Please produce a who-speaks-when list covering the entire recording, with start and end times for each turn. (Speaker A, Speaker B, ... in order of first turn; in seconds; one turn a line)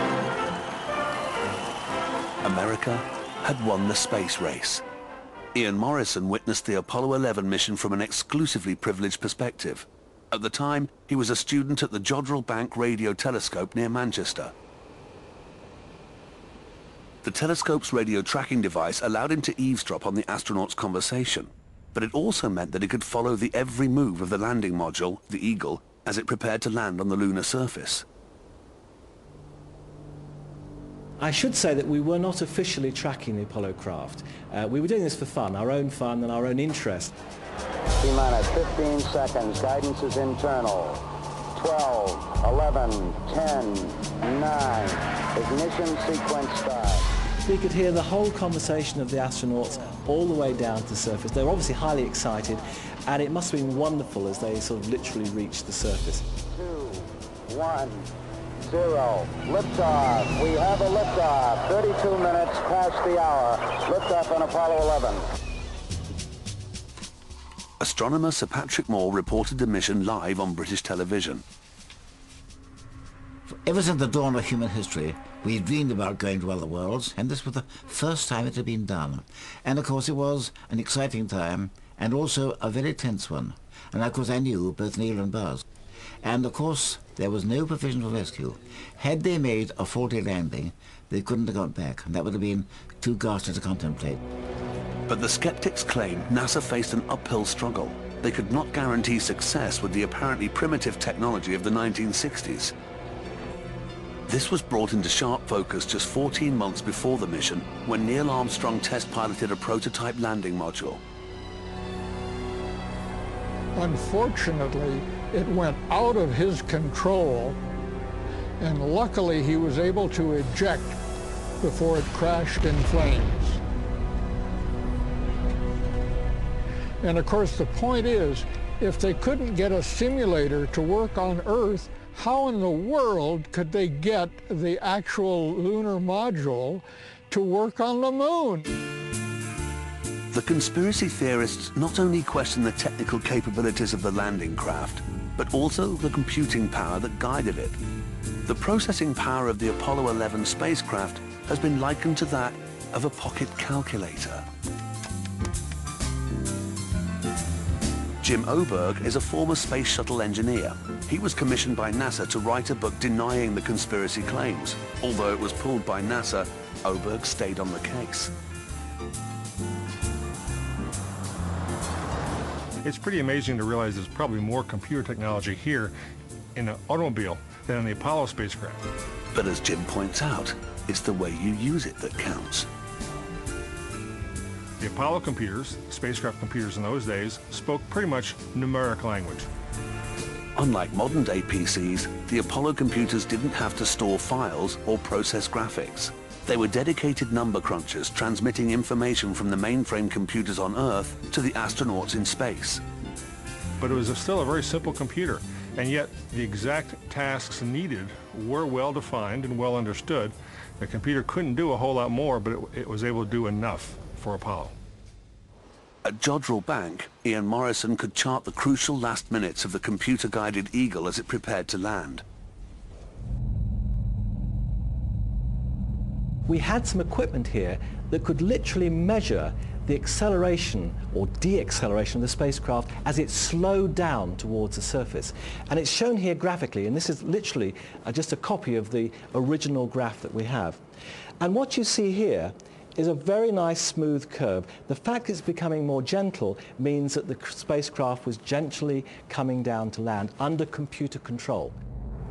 Speaker A: 2.4-4.8
Speaker A: 5.5-14.5
Speaker A: 17.2-28.1
Speaker B: 31.2-37.1
Speaker C: 38.0-41.0
Speaker C: 41.5-47.1
Speaker B: 47.5-56.2
Speaker C: 56.5-58.1
Speaker C: 58.6-65.3
Speaker A: 67.8-71.4
Speaker D: 73.5-85.6
Speaker D: 86.2-94.2
Speaker A: 95.1-102.7
Speaker A: 104.3-111.0
Speaker E: 113.8-117.6
Speaker E: 118.6-121.0
Speaker E: 121.6-123.6
Speaker E: 127.0-138.7
Speaker A: 140.3-147.8
Speaker A: 148.5-154.4
Speaker A: 158.2-168.3
Speaker F: 172.8-175.9
Speaker F: 176.6-178.8
Speaker A: 179.3-182.7
Speaker F: 184.8-189.5
Speaker A: 190.6-202.8
Speaker F: 203.8-214.7
Speaker A: 216.1-222.2
Speaker B: 226.5-240.8
Speaker B: 241.4-251.7